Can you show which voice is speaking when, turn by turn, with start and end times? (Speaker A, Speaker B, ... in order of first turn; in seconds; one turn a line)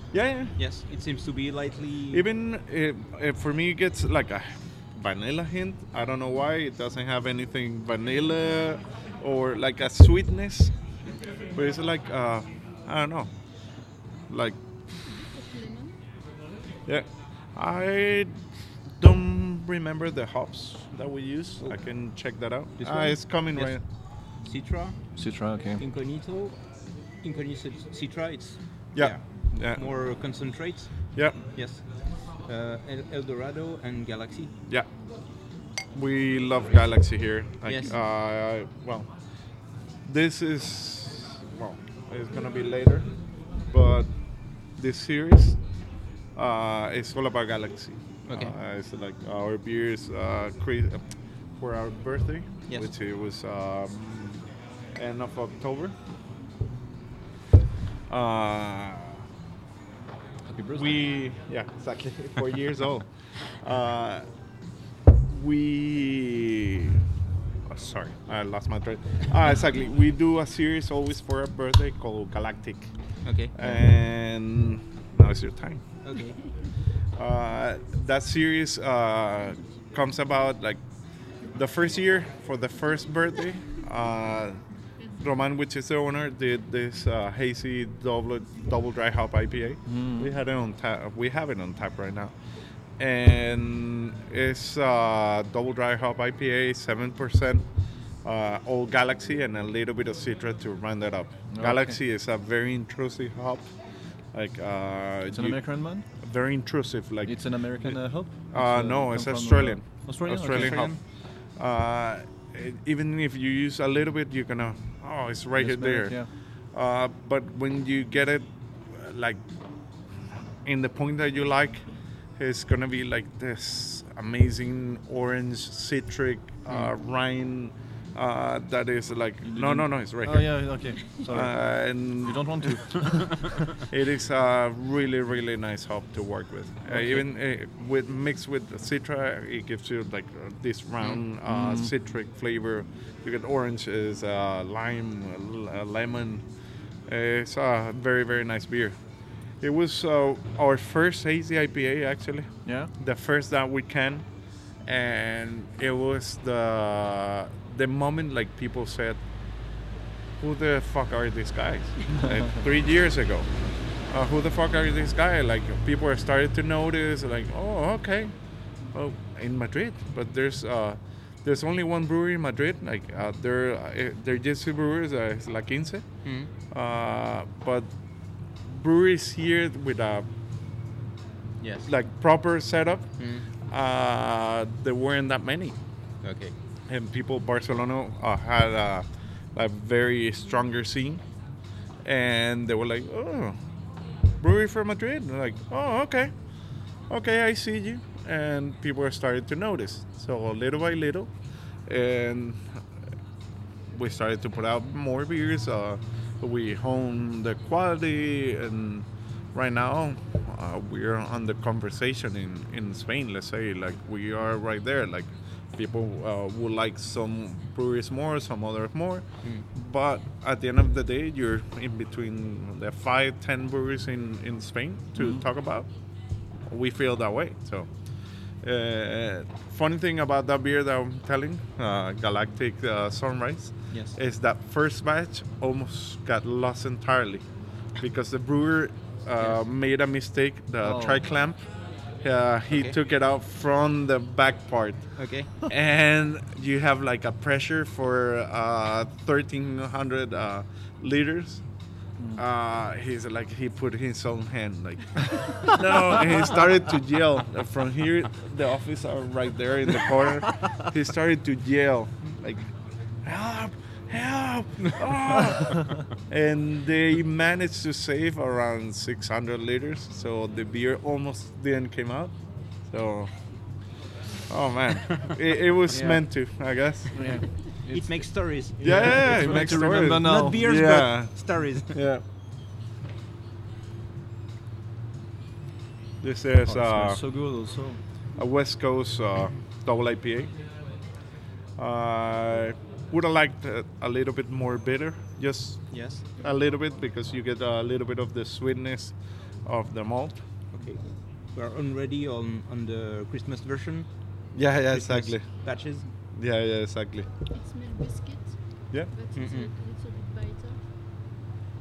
Speaker A: 0.1-0.6
Speaker B: 0.6-2.3
Speaker A: 2.1-10.7
Speaker A: 11.5-13.3
Speaker A: 14.3-14.6
Speaker C: 15.0-16.0
Speaker A: 16.9-18.4
Speaker A: 19.0-23.8
Speaker B: 22.8-23.8
Speaker B: 24.4-25.0
Speaker D: 25.2-25.8
Speaker B: 25.8-26.6
Speaker B: 27.2-31.8
Speaker A: 28.9-29.9
Speaker B: 32.5-34.5
Speaker A: 35.9-39.1
Speaker B: 37.7-38.0
Speaker A: 40.0-43.1
Speaker A: 43.7-44.1
Speaker A: 44.7-45.6
Speaker A: 46.4-54.4
Speaker B: 48.3-48.5
Speaker A: 55.0-56.0
Speaker A: 58.1-59.2
Speaker D: 60.5-61.0
Speaker A: 60.8-64.2
Speaker A: 65.3-67.0
Speaker A: 67.7-72.9
Speaker B: 73.2-73.5
Speaker A: 73.5-75.8
Speaker B: 76.0-76.4
Speaker A: 77.2-80.8
Speaker A: 81.5-84.6
Speaker A: 85.2-92.3
Speaker D: 89.9-90.3
Speaker A: 93.0-97.7
Speaker A: 98.2-103.7
Speaker D: 101.5-102.0
Speaker A: 104.3-105.6
Speaker D: 105.3-106.0
Speaker A: 106.2-108.0
Speaker D: 107.3-111.0
Speaker A: 108.5-110.9
Speaker B: 110.5-111.0
Speaker A: 111.6-116.2
Speaker D: 115.6-116.3
Speaker A: 116.7-119.4
Speaker A: 120.3-121.8
Speaker A: 122.4-130.6
Speaker D: 129.5-131.6
Speaker A: 131.3-132.7
Speaker D: 132.2-133.7
Speaker A: 133.8-146.4
Speaker D: 136.9-137.2
Speaker D: 141.5-141.9
Speaker A: 147.1-149.0
Speaker A: 149.6-154.2
Speaker D: 152.7-152.9
Speaker A: 154.8-159.2
Speaker A: 160.4-163.5
Speaker A: 164.1-168.3
Speaker A: 168.9-176.1
Speaker B: 176.2-176.5
Speaker A: 176.7-177.9
Speaker A: 178.6-180.3
Speaker B: 181.6-181.9
Speaker A: 181.9-185.8
Speaker B: 183.2-183.5
Speaker B: 186.2-186.5
Speaker A: 186.9-191.2
Speaker A: 192.0-193.6
Speaker A: 194.4-196.3
Speaker A: 197.1-201.3
Speaker A: 201.9-202.8
Speaker A: 203.9-225.9
Speaker D: 225.2-225.4
Speaker A: 226.7-227.9
Speaker A: 228.6-237.4
Speaker A: 238.0-241.6
Speaker D: 240.8-241.2
Speaker A: 242.2-251.6
Speaker B: 245.2-245.5
Speaker A: 252.4-262.7
Speaker A: 263.2-273.3
Speaker A: 274.5-277.2
Speaker D: 275.9-276.2
Speaker D: 277.1-280.6
Speaker B: 277.9-282.0
Speaker A: 278.8-281.4
Speaker A: 281.9-282.2
Speaker A: 286.2-287.2
Speaker D: 286.7-288.0
Speaker A: 288.4-290.5
Speaker A: 291.8-299.1
Speaker B: 295.9-296.2
Speaker A: 299.7-300.4
Speaker B: 300.7-304.1
Speaker A: 304.5-305.5
Speaker B: 304.9-306.1
Speaker A: 306.3-307.3
Speaker C: 307.5-310.8
Speaker B: 309.4-309.7